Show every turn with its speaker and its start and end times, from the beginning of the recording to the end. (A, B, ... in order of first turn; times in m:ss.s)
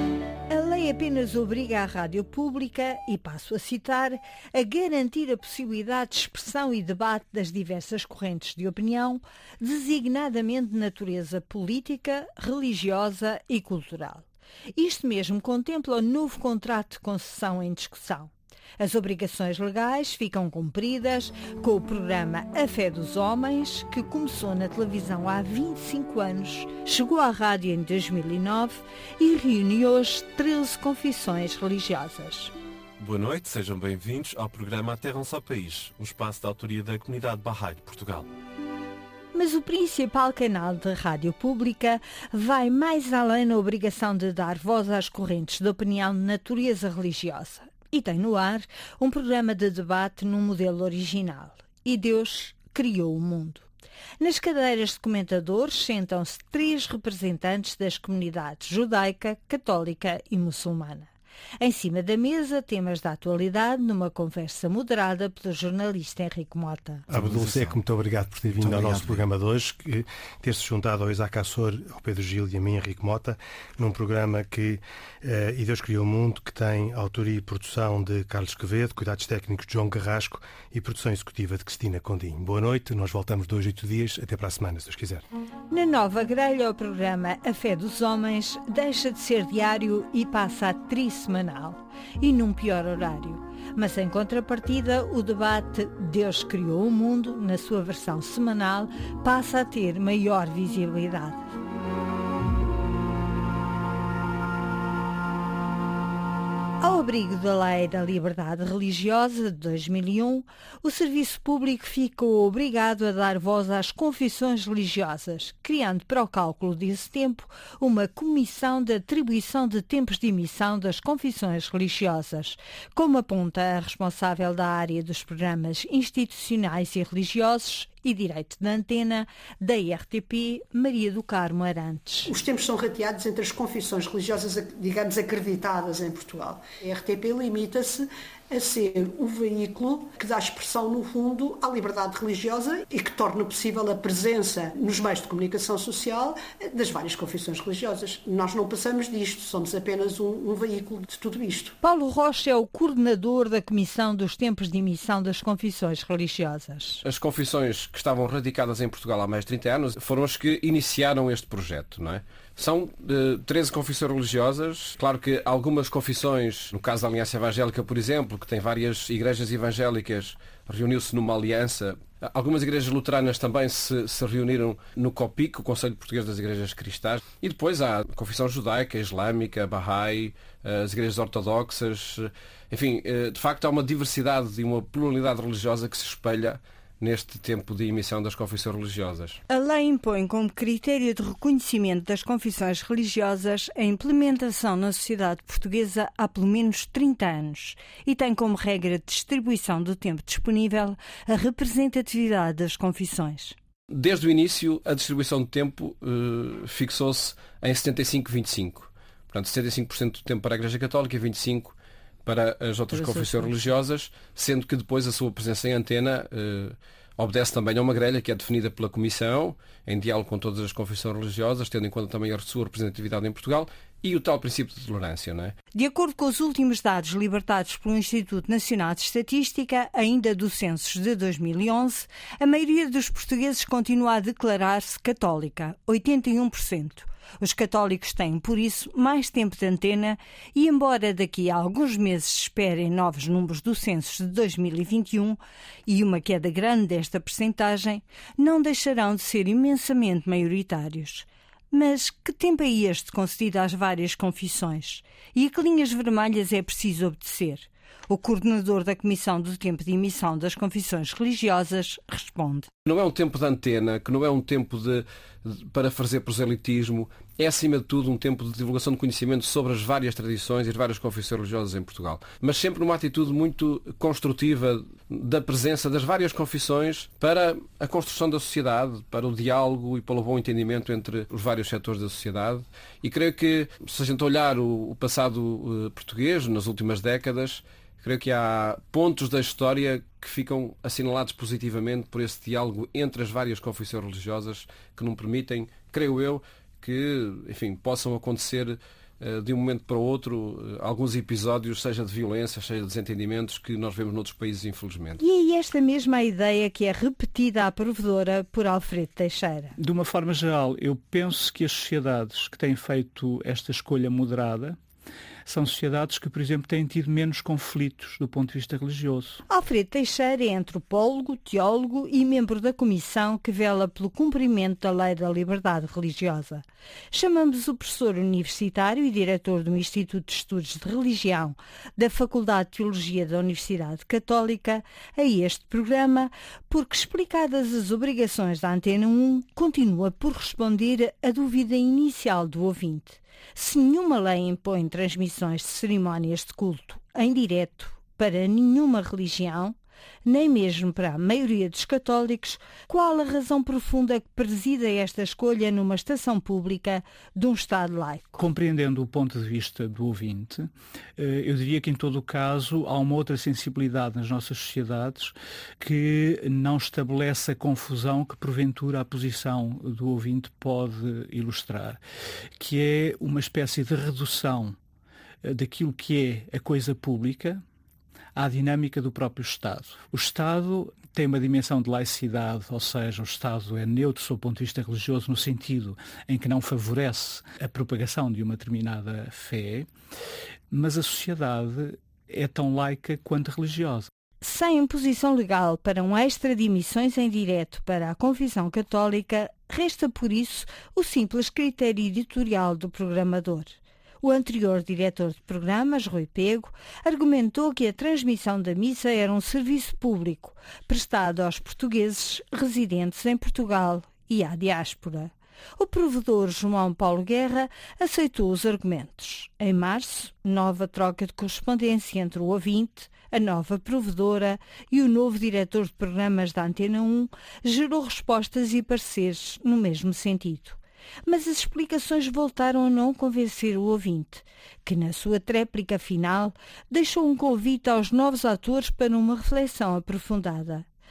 0:00.5-0:32.5 A
0:33.0-0:38.3 B
0:39.3-0:53.6 A
0:54.2-1:07.0 A
1:07.1-1:25.2 C
1:25.7-1:41.5 A
1:46.8-2:12.3 A
2:12.3-2:31.7 D
2:31.8-2:37.0 A
2:37.0-3:09.4 E
3:09.5-3:23.6 A
3:23.9-3:45.5 E
3:45.7-4:22.7 A
4:22.8-5:05.2 E
5:05.2-5:09.7 A
5:09.8-5:14.8 F
5:15.4-5:19.4 F
5:19.5-5:58.4 A
5:58.4-6:12.0 F
6:12.6-6:14.8 F
6:15.4-6:17.6 F
6:18.4-6:29.9 F
6:30.7-6:34.1 F
6:34.4-7:20.9 A